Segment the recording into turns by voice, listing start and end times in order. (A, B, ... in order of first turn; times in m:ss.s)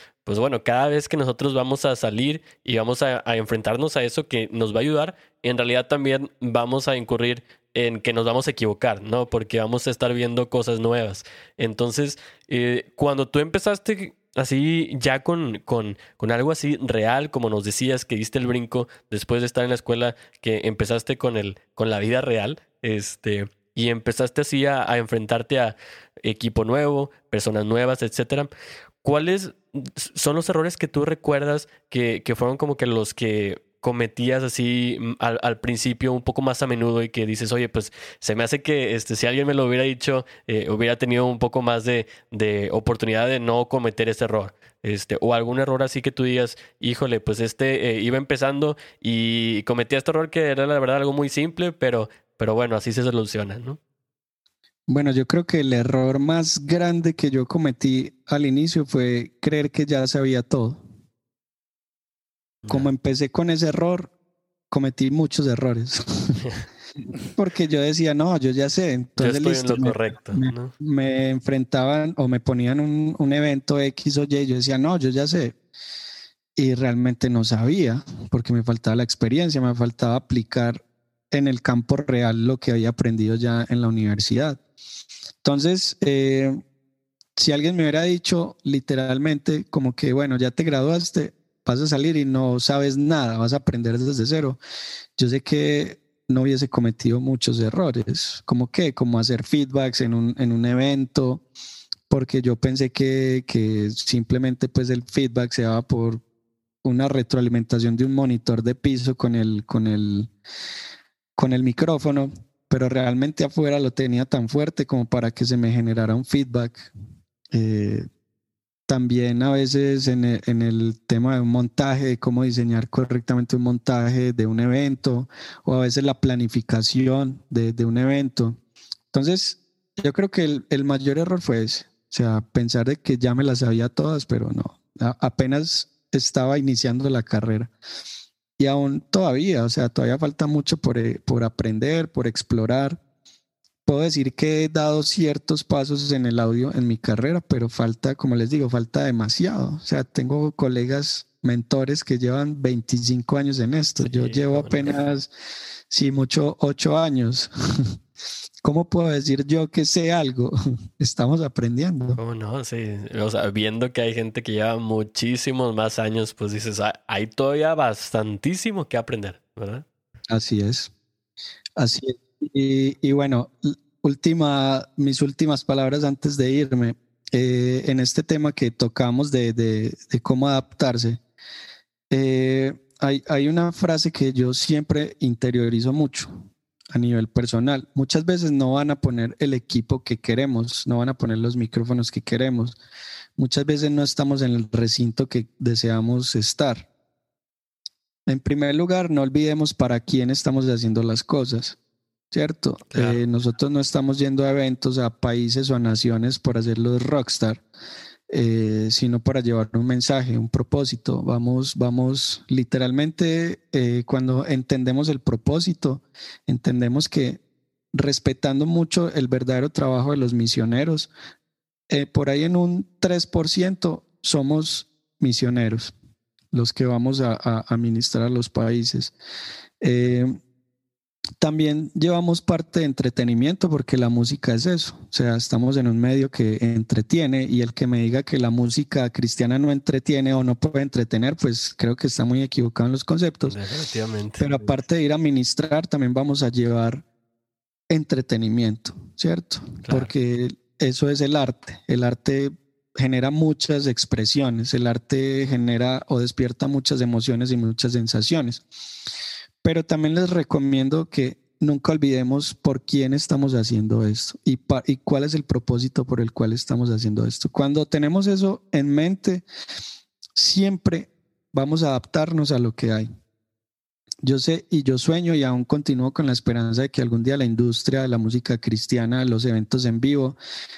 0:00.3-0:28.5 A
0:29.0-0:53.8 A
0:54.9-1:00.8 B
1:02.6-1:02.9 A
1:02.7-1:04.1 B
1:04.7-1:06.5 B
1:07.3-1:15.6 B
1:09.2-1:10.7 A
1:16.6-1:24.6 B
1:25.4-1:26.6 B
1:27.4-1:34.6 B
1:35.2-1:41.4 B
1:42.1-1:46.2 B
1:46.8-1:50.3 B
1:51.4-1:56.9 B
1:57.5-1:58.1 B
1:58.9-2:08.6 B
2:09.1-2:17.7 B
2:18.6-2:23.0 B
2:23.9-2:35.3 B
2:34.0-2:35.0 A
2:35.9-2:37.5 B
2:38.6-2:42.2 B
2:42.2-2:49.8 A
2:50.3-2:50.9 B
2:51.8-3:01.2 B
3:02.1-3:12.8 B
3:13.4-3:16.9 B
3:18.3-3:21.8 B
3:22.3-3:27.6 B
3:22.9-3:23.2 A
3:28.3-3:37.4 B
3:37.9-3:41.1 B
3:41.9-3:46.0 B
3:46.5-3:49.1 B
3:49.8-3:50.4 B
3:51.4-4:03.6 B
4:03.4-4:04.7 A
4:04.4-4:07.0 B
4:07.9-4:18.7 B
4:09.8-4:10.1 A
4:19.6-4:29.4 B
4:30.4-4:33.1 B
4:34.2-4:40.4 B